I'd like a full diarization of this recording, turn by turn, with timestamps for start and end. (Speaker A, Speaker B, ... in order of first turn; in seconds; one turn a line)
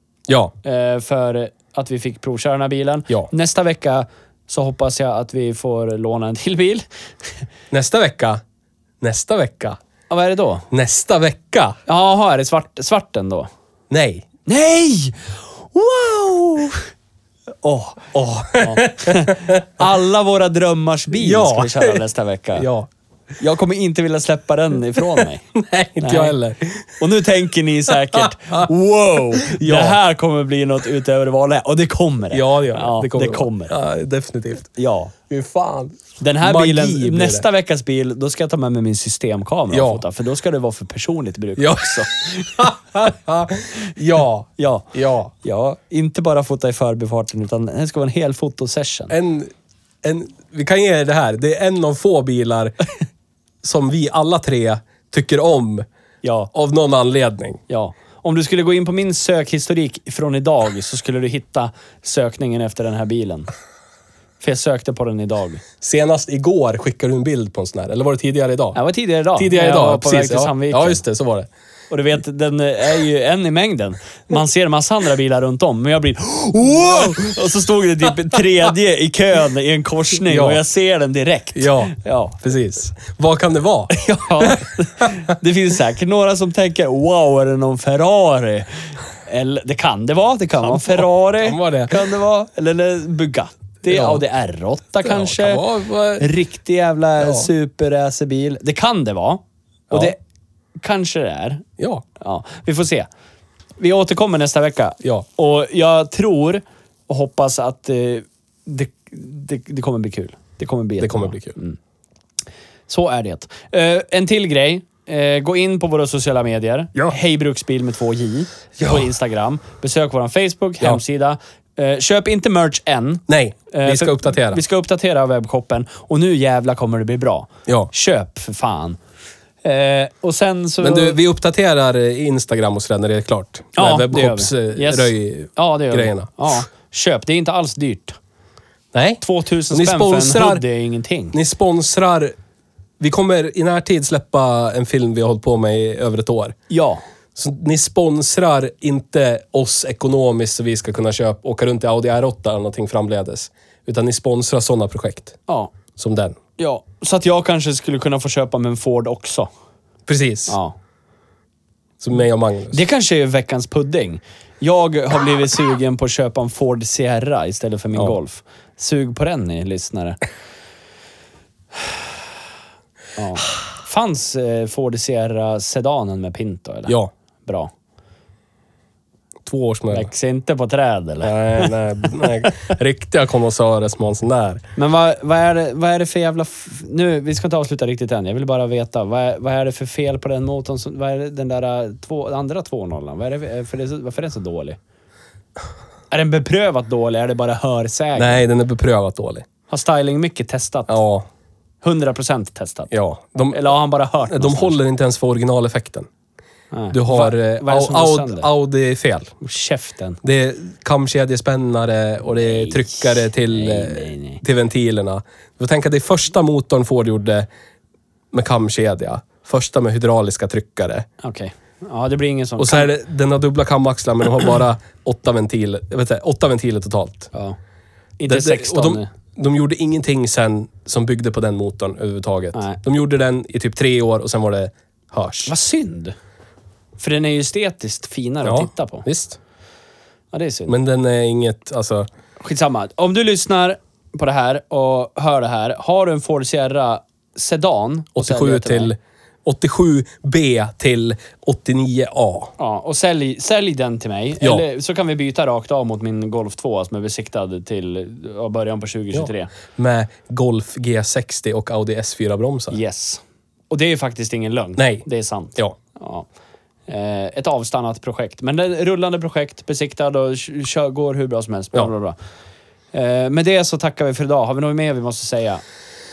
Speaker A: 0.3-0.5
Speaker B: 0.6-7.3
Speaker A: 7.7-8.4
Speaker A: 9.0-9.8
Speaker B: 10.1-10.7
Speaker A: 10.7-11.8
Speaker B: 11.9-13.5
Speaker A: 13.9-14.2
Speaker B: 14.4-16.9
Speaker B: 17.6-22.7
Speaker A: 18.1-19.6
Speaker A: 21.1-22.0
Speaker A: 22.6-22.9
Speaker B: 23.4-25.4
Speaker A: 25.2-26.9
Speaker B: 26.0-26.3
Speaker B: 27.0-33.7
Speaker A: 29.3-30.0
Speaker A: 32.3-34.7
Speaker B: 34.8-35.1
Speaker A: 35.3-37.5
Speaker B: 36.2-42.7
Speaker A: 39.7-40.0
Speaker A: 41.6-45.3
Speaker B: 44.6-49.1
Speaker A: 49.1-49.5
Speaker A: 50.0-52.7
Speaker A: 53.6-55.9
Speaker B: 56.2-56.5
Speaker A: 56.5-57.6
Speaker B: 57.7-63.5
Speaker B: 64.4-65.6
Speaker A: 65.8-68.8
Speaker B: 68.7-71.0
Speaker A: 69.3-71.5
Speaker B: 71.9-82.4
Speaker A: 80.3-80.6
Speaker A: 81.5-85.1
Speaker B: 83.9-95.6
Speaker A: 90.6-92.1
Speaker A: 93.8-94.2
Speaker A: 95.0-96.3
Speaker B: 96.2-100.2
Speaker A: 97.2-97.5
Speaker A: 99.9-100.1
Speaker B: 100.8-101.7
Speaker A: 101.8-102.0
Speaker B: 102.2-103.1
Speaker B: 103.8-111.8
Speaker A: 111.0-111.5
Speaker B: 112.9-129.0
Speaker A: 118.8-119.0
Speaker A: 123.3-124.6
Speaker B: 129.6-131.2
Speaker A: 130.8-136.3
Speaker B: 133.7-138.2
Speaker A: 138.9-140.6
Speaker B: 139.2-141.4
Speaker A: 141.3-142.3
Speaker A: 143.0-146.6
Speaker B: 146.7-147.0
Speaker A: 147.3-155.4
Speaker B: 155.5-155.7
Speaker A: 156.0-156.4
Speaker B: 156.6-159.5
Speaker A: 160.1-160.6
Speaker B: 160.5-160.8
Speaker A: 162.0-162.8
Speaker B: 162.7-170.2
Speaker B: 173.2-177.7
Speaker A: 176.9-177.1
Speaker A: 179.4-180.1
Speaker B: 179.9-182.5
Speaker A: 181.2-184.6
Speaker B: 184.8-194.8
Speaker B: 196.1-198.4
Speaker A: 198.2-199.4
Speaker B: 199.7-201.0
Speaker A: 200.9-201.2
Speaker B: 201.8-202.9
Speaker A: 202.9-203.7
Speaker B: 203.5-204.8
Speaker A: 204.2-206.1
Speaker B: 206.7-208.5
Speaker A: 206.9-209.4
Speaker B: 209.4-210.2
Speaker A: 210.2-217.5
Speaker B: 212.2-214.4
Speaker A: 218.3-221.1
Speaker B: 221.2-222.9
Speaker A: 222.6-227.3
Speaker B: 228.2-229.1
Speaker A: 228.3-235.5
Speaker B: 235.5-236.1
Speaker B: 237.0-239.1
Speaker A: 238.4-239.4
Speaker B: 240.3-240.8
Speaker A: 240.7-242.1
Speaker B: 242.4-248.9
Speaker A: 248.1-252.5
Speaker B: 252.6-259.5
Speaker A: 259.1-262.8
Speaker B: 262.7-266.3
Speaker A: 264.8-265.0
Speaker B: 266.9-272.1
Speaker B: 272.9-275.6